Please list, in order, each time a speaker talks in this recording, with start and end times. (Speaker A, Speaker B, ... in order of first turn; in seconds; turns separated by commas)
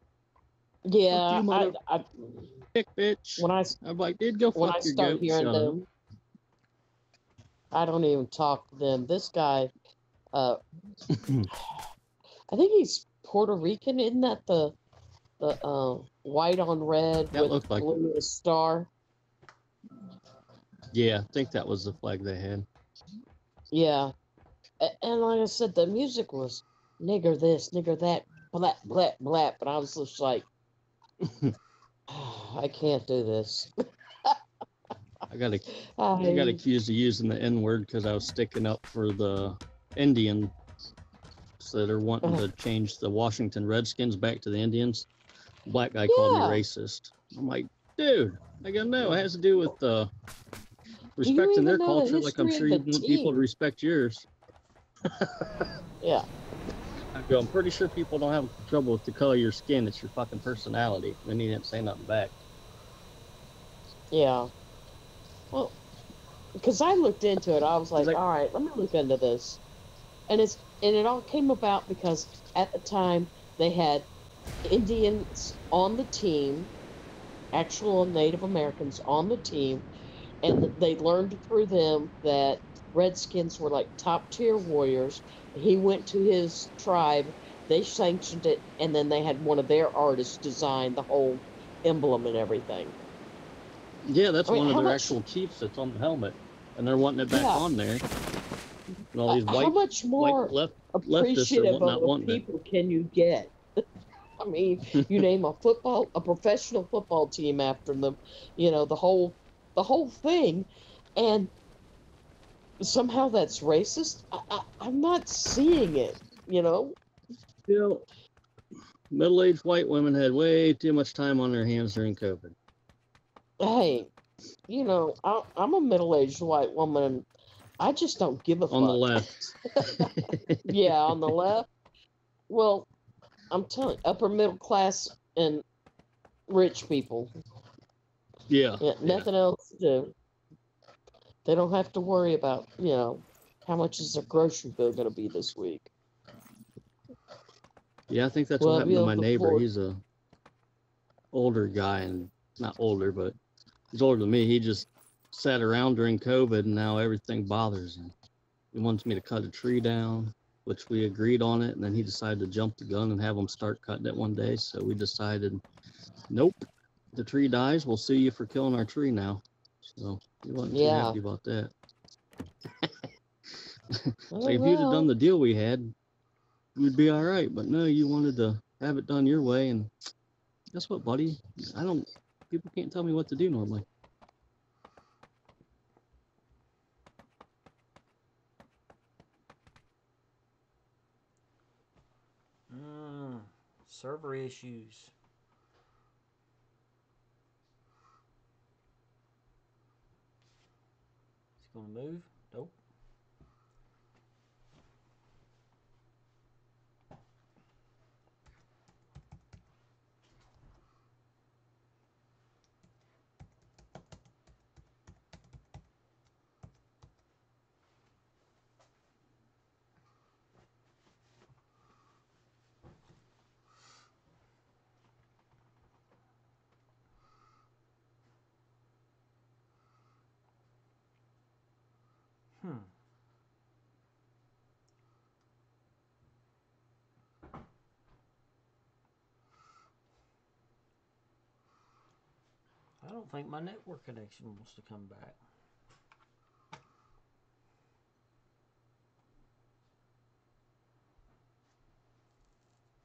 Speaker A: 0.9-2.6, Speaker B: 1.1-1.8, Speaker B: 2.7-5.8, Speaker A: 3.4-3.8, Speaker A: 4.6-5.8, Speaker A: 7.7-9.7, Speaker A: 10.3-10.6, Speaker B: 11.1-11.5, Speaker A: 12.5-14.8, Speaker A: 15.4-18.9, Speaker B: 17.3-17.9, Speaker B: 20.9-22.7, Speaker A: 23.7-24.1, Speaker A: 24.8-30.5, Speaker B: 31.3-31.5, Speaker A: 32.1-33.7, Speaker B: 35.3-40.5, Speaker A: 36.0-36.6, Speaker B: 41.6-45.1, Speaker B: 45.7-50.1, Speaker A: 46.1-46.6, Speaker B: 51.2-54.3, Speaker A: 51.2-53.4, Speaker A: 56.0-56.3, Speaker B: 57.1-62.4, Speaker A: 64.1-64.5, Speaker A: 66.6-69.6, Speaker A: 70.3-74.1, Speaker A: 74.7-76.7, Speaker A: 77.5-79.8, Speaker A: 80.4-93.0, Speaker B: 94.1-98.0, Speaker A: 94.5-95.2, Speaker A: 97.3-97.7, Speaker B: 99.1-102.4, Speaker A: 99.3-103.5, Speaker A: 104.4-111.5, Speaker A: 112.8-117.0, Speaker B: 117.7-118.0, Speaker B: 119.1-122.5, Speaker A: 123.6-124.1, Speaker A: 124.7-127.3, Speaker A: 127.8-129.1, Speaker B: 128.7-131.1, Speaker A: 129.8-130.1, Speaker A: 130.7-131.7, Speaker A: 132.5-132.9, Speaker A: 133.5-135.6, Speaker A: 136.5-137.3, Speaker B: 138.5-139.3, Speaker A: 138.8-140.1, Speaker A: 141.4-145.9, Speaker B: 148.1-150.0, Speaker A: 148.6-149.7, Speaker B: 151.3-153.4, Speaker B: 153.9-158.1, Speaker B: 158.7-165.6, Speaker B: 166.3-169.4, Speaker B: 170.0-171.7, Speaker A: 170.7-171.2, Speaker B: 173.9-175.9, Speaker A: 174.3-175.1, Speaker B: 176.8-179.9, Speaker B: 180.7-183.8, Speaker C: 192.7-195.1, Speaker C: 201.6-202.8, Speaker C: 232.6-232.9, Speaker C: 243.0-245.4